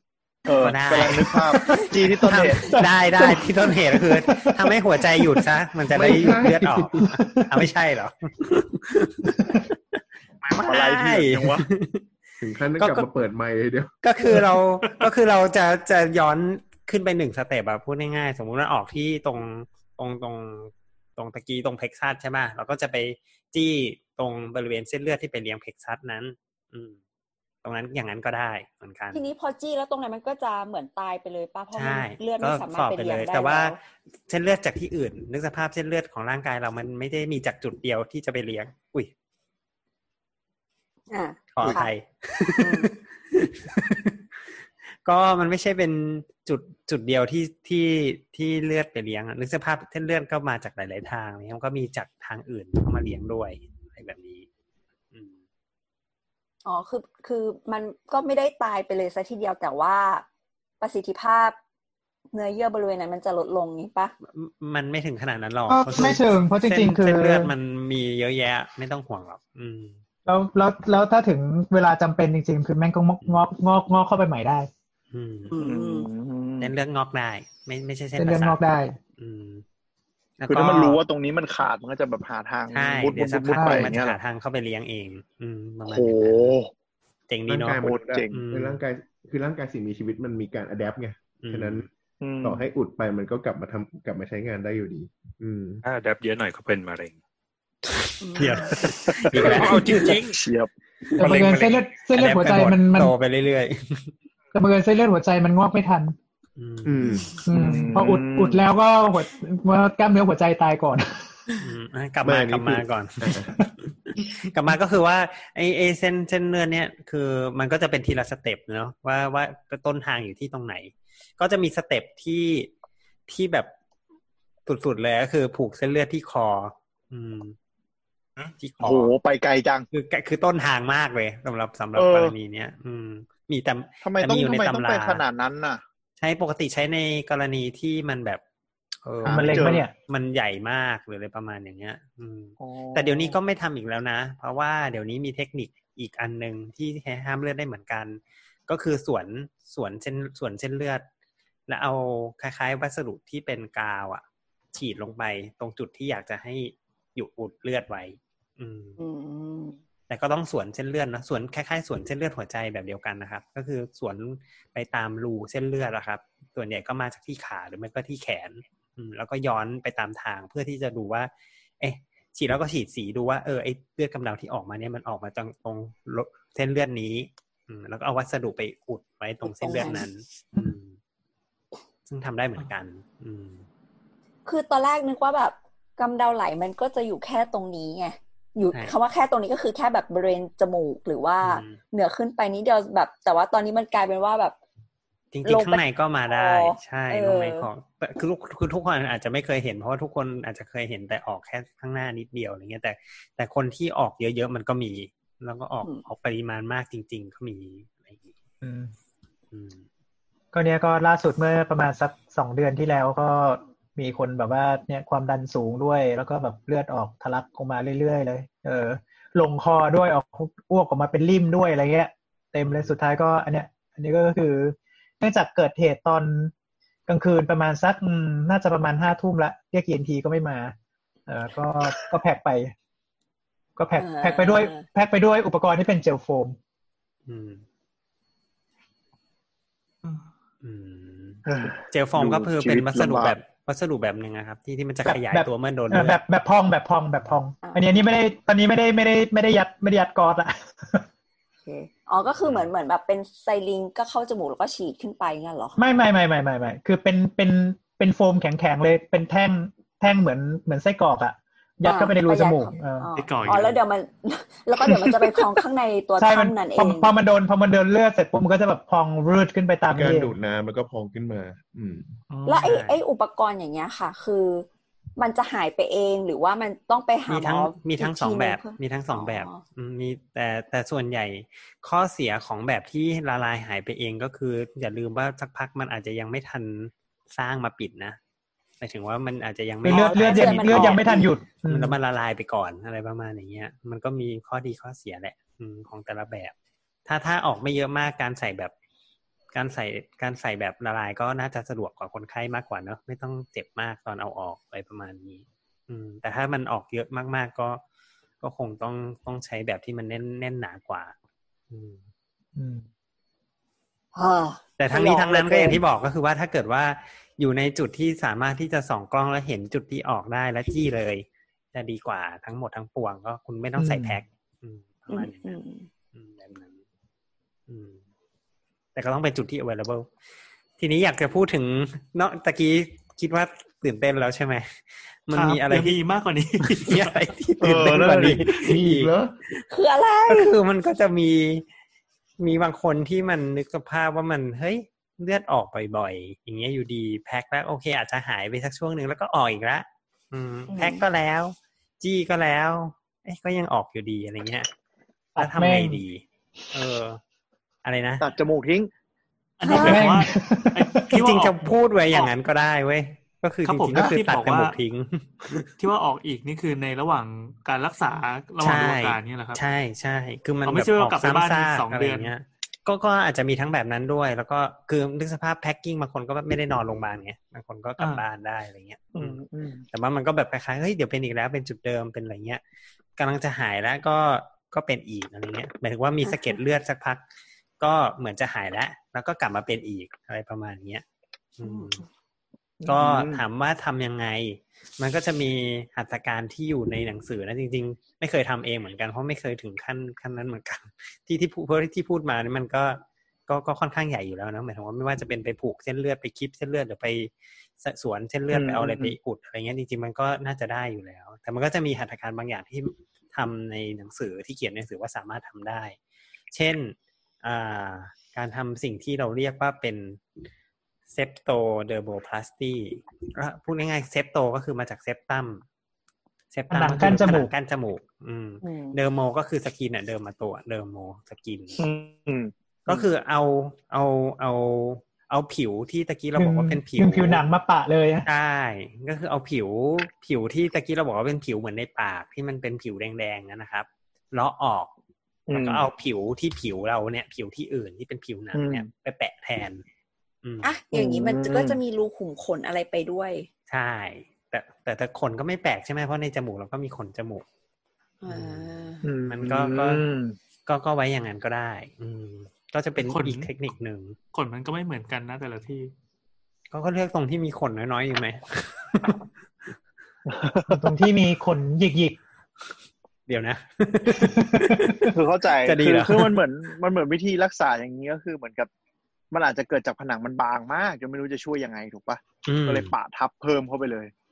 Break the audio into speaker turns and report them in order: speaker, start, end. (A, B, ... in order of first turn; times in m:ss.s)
0:00.5-0:02.8 A
0:00.6-0:09.7 B
0:01.6-0:04.6 C
0:05.9-0:07.0 D
0:07.0-0:07.5 C
0:10.5-0:12.0 B
0:10.6-0:11.7 A
0:12.4-0:13.9 D
0:12.8-0:13.1 B
0:14.0-0:27.0 B
0:27.6-0:29.2 B
0:29.1-0:33.8 E
0:31.7-0:33.7 B
0:34.3-0:39.1 B
0:41.1-0:41.9 E
0:41.5-0:44.4 B
0:42.6-0:42.9 E
0:45.0-0:54.5 B
0:56.6-1:00.2 E
1:00.8-1:01.6 E
1:02.3-1:04.1 E
1:04.3-1:10.0 B
1:05.7-1:07.5 C
1:10.3-1:14.7 C
1:15.1-1:15.5 B
1:15.5-1:16.1 E
1:15.6-1:16.7 A
1:16.6-1:18.6 B
1:18.2-1:19.0 C
1:19.2-1:19.6 B
1:20.4-1:21.0 B
1:20.5-1:24.2 A
1:22.7-1:26.5 B
1:23.6-1:23.9 C
1:25.9-1:26.7 A
1:27.3-1:28.8 B
1:27.5-1:31.9 D
1:27.8-1:28.4 A
1:31.4-1:31.9 B
1:32.2-1:32.7 A
1:32.4-1:35.8 D
1:35.8-1:37.2 F
1:38.2-1:38.8 E
1:38.3-1:40.2 B
1:38.7-1:40.7 A
1:39.3-1:40.4 F
1:41.2-1:41.6 B
1:41.2-1:41.8 F
1:41.2-1:43.1 C
1:42.1-1:44.1 B
1:44.5-1:46.2 C
1:46.6-1:47.3 B
1:46.8-1:47.4 D
1:47.5-1:51.3 C
1:47.5-1:48.6 A
1:51.6-2:02.7 B
1:52.2-1:53.6 D
2:03.3-2:03.7 B
2:04.7-2:07.6 B
2:08.6-2:09.1 B
2:08.8-2:09.9 A
2:09.9-2:15.2 B
2:12.0-2:12.4 A
2:14.0-2:15.8 A
2:16.2-2:18.4 B
2:19.0-2:31.0 B
2:19.2-2:19.9 A
2:19.3-2:19.9 C
2:22.6-2:23.4 A
2:31.7-2:39.0 B
2:39.0-2:39.8 E
2:40.1-3:01.0 B
2:59.4-3:00.1 E
3:02.1-3:03.6 B
3:04.5-3:14.6 E
3:11.4-3:11.8 B
3:15.3-3:28.3 B
3:15.4-3:17.7 E
3:28.6-3:28.9 C
3:29.5-3:29.8 B
3:30.5-3:46.5 C
3:42.6-3:43.0 B
3:47.1-3:50.7 C
3:51.3-3:52.7 C
3:53.8-3:56.6 C
3:54.0-3:54.8 E
3:57.3-3:57.6 B
4:00.6-4:06.2 B
4:01.5-4:03.4 A
4:05.1-4:11.0 C
4:07.6-4:08.2 E
4:11.6-4:15.8 E
4:12.4-4:12.7 B
4:15.8-4:23.1 C
4:21.8-4:27.1 E
4:23.2-4:23.8 G
4:23.5-4:23.7 B
4:26.2-4:30.3 C
4:29.9-4:32.1 D
4:32.3-4:32.8 G
4:32.5-4:39.6 E
4:32.6-4:33.0 B
4:37.3-4:48.2 B
4:48.8-4:51.0 B
4:49.8-4:51.3 E
4:49.8-4:52.0 C
4:51.7-4:56.5 B
4:57.1-4:58.7 B
4:59.5-5:07.8 B
5:08.4-5:11.1 B
5:11.7-5:12.0 B
5:12.6-5:12.8 C
5:14.2-5:15.8 E
5:14.8-5:25.6 B
5:23.8-5:24.2 C
5:25.1-5:25.9 E
5:26.1-5:26.8 B
5:27.7-5:28.0 B
5:29.0-5:30.1 B
5:30.8-5:36.0 B
5:35.3-5:37.1 G
5:36.7-5:39.1 B
5:37.6-5:38.5 A
5:38.2-5:39.3 D
5:39.7-5:40.6 E
5:40.3-5:41.6 B
5:42.4-5:54.7 B
5:50.7-5:51.0 E
5:55.4-5:56.0 C
5:55.4-5:57.2 B
5:57.8-5:58.3 B
5:58.2-5:58.9 A
5:59.6-6:02.3 G
5:59.6-6:00.1 E
5:59.7-6:00.0 B
5:59.8-6:01.1 C
6:01.1-6:05.7 B
6:03.6-6:04.8 G
6:05.8-6:09.6 G
6:08.6-6:22.6 B
6:10.6-6:12.3 G
6:18.0-6:18.2 G
6:19.1-6:19.8 A
6:23.2-6:27.2 B
6:27.8-6:31.0 B
6:31.6-6:32.0 B
6:31.6-6:32.0 E
6:32.8-6:33.4 A
6:32.9-6:56.0 B
6:48.5-6:49.2 A
6:56.5-7:00.2 B
7:01.1-7:05.6 B
7:06.5-7:11.8 B
7:06.7-7:07.5 C
7:08.6-7:09.0 E
7:11.8-7:13.1 A
7:12.9-7:17.4 B
7:16.4-7:18.3 C
7:18.3-7:24.9 B
7:25.5-7:25.9 A
7:25.5-7:29.8 B
7:28.5-7:28.9 A
7:30.4-7:30.7 B
7:30.6-7:33.5 E
7:30.9-7:31.8 A
7:33.7-7:37.4 B
7:38.2-7:39.0 E
7:38.3-7:38.7 B
7:39.0-7:40.4 A
7:39.3-7:40.0 B
7:40.7-7:44.2 B
7:43.0-7:43.5 G
7:44.3-7:45.9 G
7:46.7-7:49.3 B
7:50.3-7:50.8 A
7:50.7-7:52.2 C
7:53.3-7:55.1 B
7:54.2-7:54.9 C
7:55.1-7:58.7 A
7:55.6-7:56.4 B
7:59.3-8:04.1 A
8:02.4-8:02.9 B